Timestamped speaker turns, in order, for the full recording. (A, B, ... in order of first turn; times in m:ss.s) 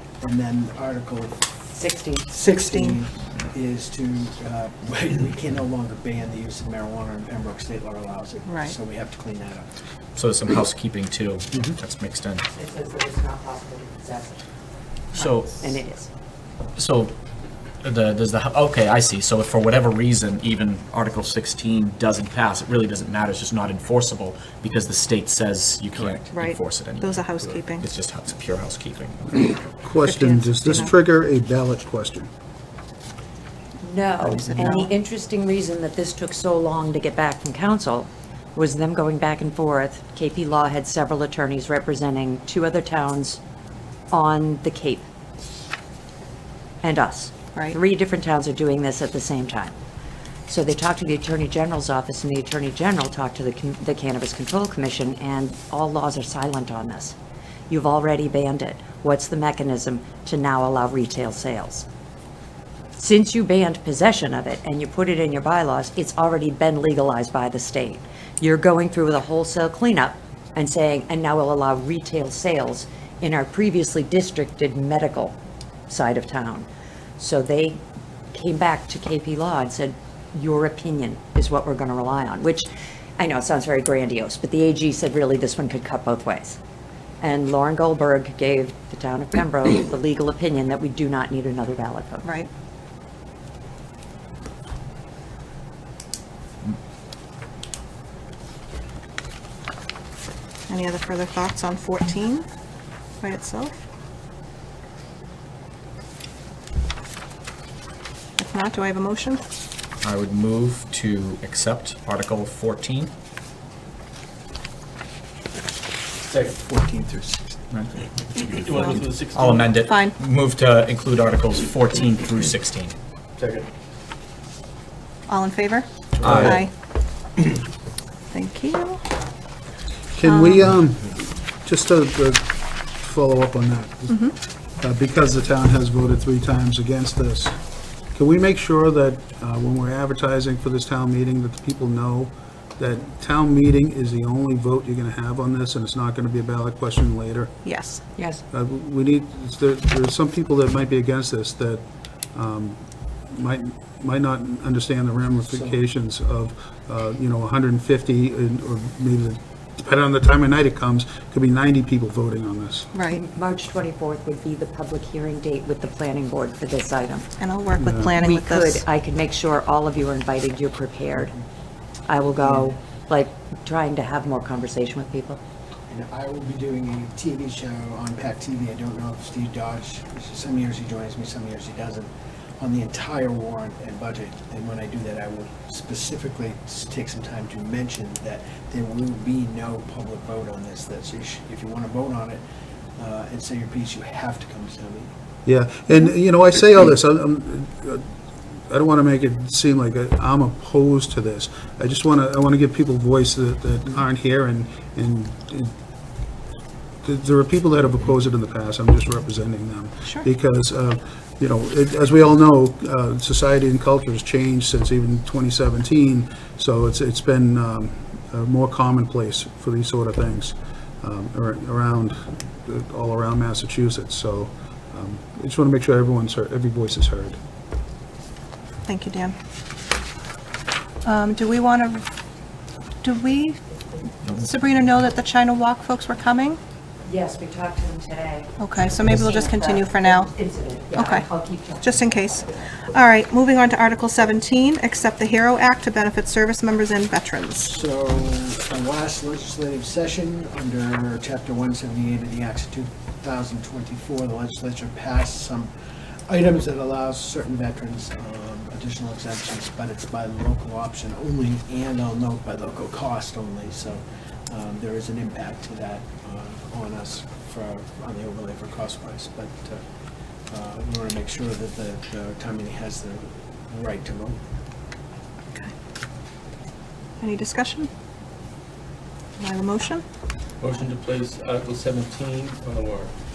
0:00.2-0:01.6 A
0:01.8-0:02.2 B
0:02.3-0:09.7 A
0:02.5-0:03.0 C
0:08.5-0:08.7 C
0:10.2-0:12.4 D
0:12.5-0:14.4 B
0:15.1-0:15.8 D
0:15.1-0:16.1 B
0:16.8-0:17.1 D
0:17.8-0:29.8 D
0:26.3-0:27.8 C
0:29.8-0:32.3 E
0:30.0-0:30.9 C
0:33.8-0:43.4 B
0:34.2-0:34.9 C
0:44.1-0:45.0 B
0:46.8-0:49.7 B
0:50.5-0:57.2 B
0:57.7-1:01.8 B
1:03.0-1:15.4 B
1:15.9-1:17.8 B
1:18.3-1:26.6 B
1:27.2-1:32.3 B
1:40.7-1:42.4 C
1:43.2-1:43.7 C
1:48.4-1:49.4 C
1:50.0-1:53.1 D
1:56.2-1:56.6 F
1:56.6-1:57.4 A
1:57.7-2:03.0 D
1:58.5-1:59.9 F
1:59.8-2:00.1 C
2:03.4-2:03.7 F
2:05.3-2:06.7 C
2:06.2-2:06.6 D
2:06.2-2:06.5 F
2:08.3-2:09.0 C
2:10.1-2:17.6 E
2:10.2-2:10.6 C
2:18.1-2:27.6 E
2:27.6-2:28.0 C
2:28.2-2:28.4 B
2:28.5-2:42.9 E
2:35.5-2:35.8 A
2:42.9-2:43.2 C
2:43.1-2:47.3 B
2:47.4-2:48.8 C
2:47.7-2:48.2 E
2:48.2-2:51.3 B
2:52.1-2:55.4 B
2:52.2-2:52.7 A
2:55.9-3:12.4 A
3:13.0-3:15.1 A
3:15.4-3:18.0 E
3:18.7-3:25.7 E
3:27.0-3:47.4 E
3:48.9-3:49.3 C
3:51.0-3:52.1 C
3:53.0-3:53.6 C
3:54.3-3:56.6 C
3:57.0-4:01.9 B
3:58.6-4:00.3 C
4:00.9-4:01.3 C
4:01.8-4:07.7 C
4:07.6-4:15.7 A
4:16.3-4:29.8 A
4:30.5-4:34.4 A
4:37.2-4:37.9 C
4:39.4-4:40.0 C
4:40.6-4:43.1 F